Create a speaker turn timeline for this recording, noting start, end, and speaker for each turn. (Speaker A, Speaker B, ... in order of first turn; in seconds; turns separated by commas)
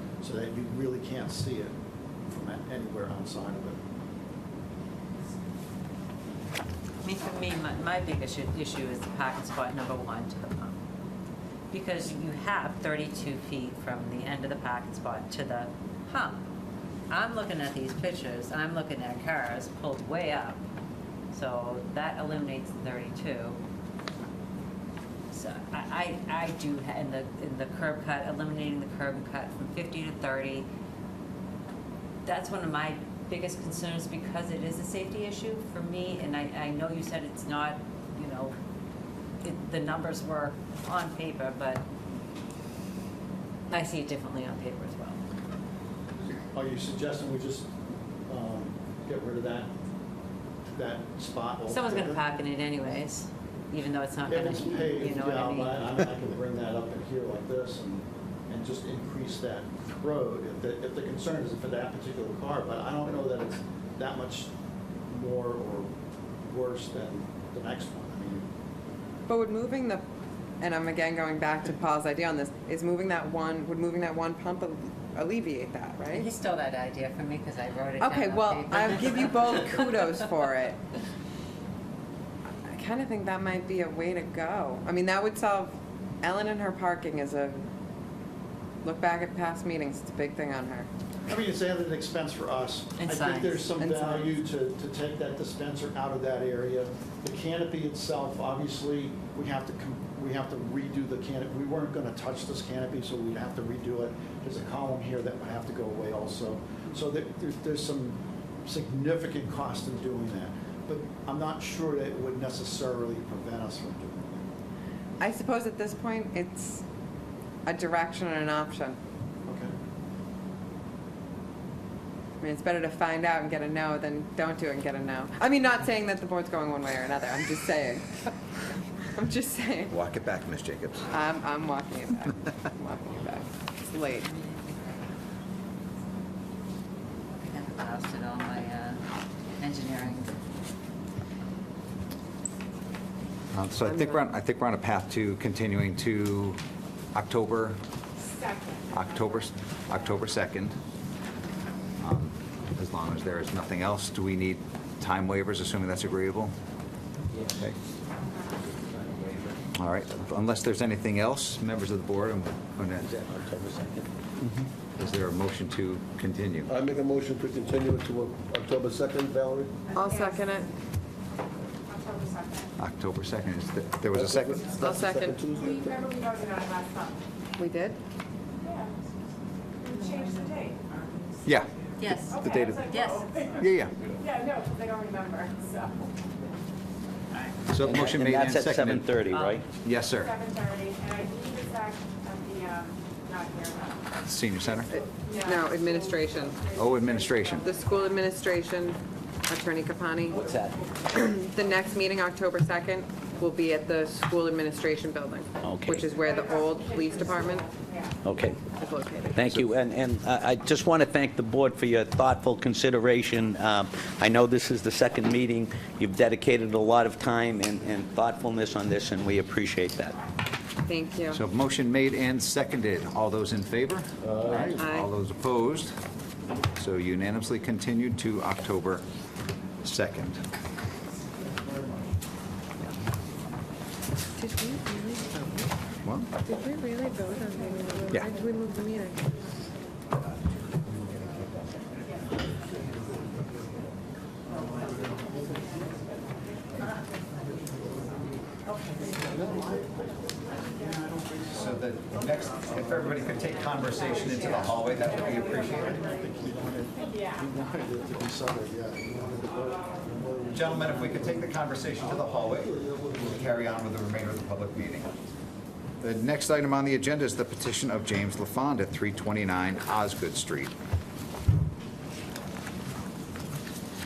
Speaker A: 0.2-1.7, Speaker A: 2.3-3.8, Speaker B: 7.0-10.7, Speaker B: 11.7-16.4, Speaker B: 17.1-20.6, Speaker B: 21.3-23.6, Speaker B: 25.3-30.7, Speaker B: 32.2-38.5, Speaker B: 39.4-41.8, Speaker B: 43.7-45.2, Speaker A: 46.4-47.7, Speaker A: 48.3-49.7, Speaker A: 50.7-52.2, Speaker B: 51.7-56.0, Speaker A: 54.3-64.5, Speaker A: 65.1-65.9, Speaker A: 66.4-68.5, Speaker C: 69.3-70.0, Speaker C: 70.6-76.3, Speaker B: 76.1-80.1, Speaker C: 78.0-80.8, Speaker C: 82.6-87.6, Speaker C: 88.8-90.9, Speaker A: 91.3-114.5, Speaker B: 93.0-93.6, Speaker C: 93.8-94.3, Speaker C: 115.2-116.8, Speaker C: 117.7-119.0, Speaker A: 119.5-119.7, Speaker C: 122.4-128.3, Speaker C: 129.1-129.9, Speaker D: 129.9-131.1, Speaker C: 131.1-134.3, Speaker B: 134.2-135.0, Speaker B: 137.4-139.0, Speaker B: 139.6-140.3, Speaker D: 143.5-146.6, Speaker C: 143.8-144.2, Speaker D: 147.1-147.8, Speaker E: 148.3-148.8, Speaker D: 148.9-150.8, Speaker D: 152.0-156.5, Speaker F: 158.9-159.4, Speaker D: 159.7-163.1, Speaker F: 163.0-164.1, Speaker D: 165.0-166.7, Speaker G: 166.7-169.7, Speaker C: 169.9-170.7, Speaker E: 170.0-170.5, Speaker E: 171.9-172.7, Speaker D: 172.8-174.9, Speaker G: 174.1-176.0, Speaker C: 174.7-175.4, Speaker E: 175.7-177.2, Speaker C: 177.6-178.0, Speaker E: 179.9-181.0, Speaker D: 181.4-183.1, Speaker B: 182.0-183.5, Speaker E: 182.3-182.8, Speaker D: 183.6-183.9, Speaker E: 184.2-186.1, Speaker D: 187.7-190.4, Speaker F: 187.8-189.6, Speaker E: 190.2-194.0, Speaker D: 194.2-194.9, Speaker C: 194.9-196.6, Speaker E: 195.2-198.1, Speaker D: 196.7-197.7, Speaker C: 197.6-200.4, Speaker C: 201.0-207.7, Speaker F: 205.7-205.9, Speaker E: 206.2-208.1, Speaker F: 208.2-208.6, Speaker C: 208.6-209.4, Speaker F: 209.3-220.2, Speaker C: 220.8-221.4, Speaker D: 221.3-225.9, Speaker G: 224.3-224.8, Speaker C: 224.7-225.1, Speaker D: 226.7-229.0, Speaker D: 229.8-230.4, Speaker C: 234.4-235.7, Speaker D: 236.0-236.3, Speaker C: 236.4-239.2, Speaker D: 241.0-241.6, Speaker E: 245.4-245.7, Speaker A: 249.0-251.7, Speaker D: 251.5-255.9, Speaker E: 255.1-255.9, Speaker A: 255.5-260.6, Speaker D: 260.5-265.1, Speaker D: 266.0-270.7